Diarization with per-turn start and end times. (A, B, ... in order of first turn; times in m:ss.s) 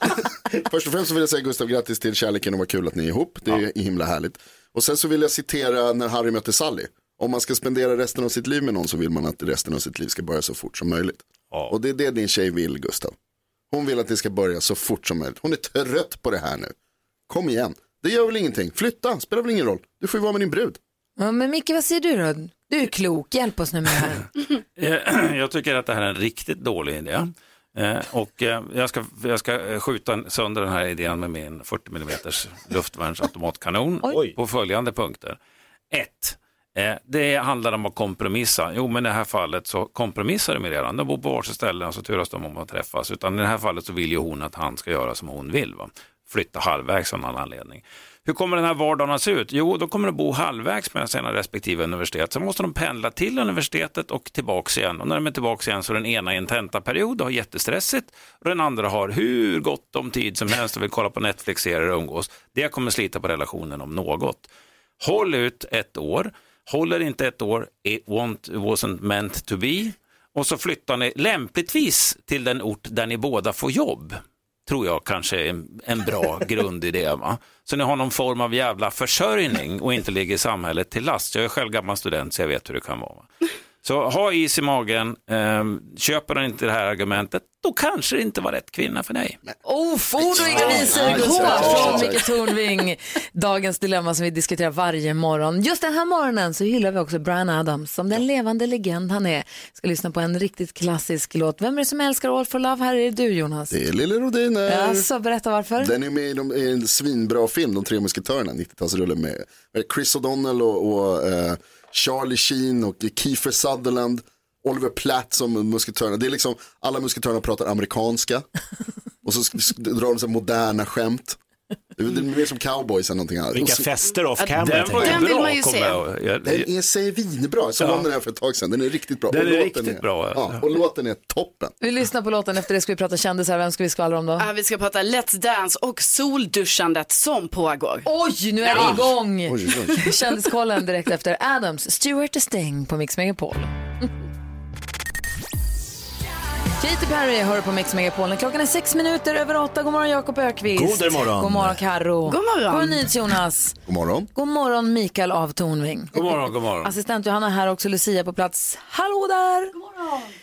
0:00.5-0:13.1 A
0:13.7-0:16.7 A
0:17.3-0:20.8 A
0:21.2-0:24.2 B
0:24.8-0:35.4 C
0:34.1-0:34.3 D
0:35.9-1:04.5 C
1:05.0-1:23.3 C
1:23.8-1:29.4 C
1:29.6-1:43.8 B
1:30.2-1:32.2 A
1:31.1-1:32.0 E
1:43.7-1:45.1 A
1:44.6-1:45.9 B
1:45.8-1:58.4 A
1:59.2-2:01.4 A
2:02.0-2:03.9 A
2:03.5-2:05.2 D
2:04.4-2:06.0 E
2:04.6-2:06.7 C
2:06.4-2:11.7 A
2:07.8-2:08.1 C
2:09.3-2:10.6 C
2:11.8-2:14.5 B
2:14.4-2:18.1 E
2:18.0-2:23.7 B
2:18.7-2:19.0 E
2:19.5-2:20.0 A
2:26.8-2:33.8 B
2:30.7-2:31.8 D
2:32.2-2:33.0 E
2:33.8-2:34.3 A
2:34.3-2:36.1 B
2:36.1-2:36.9 C
2:36.8-2:39.7 B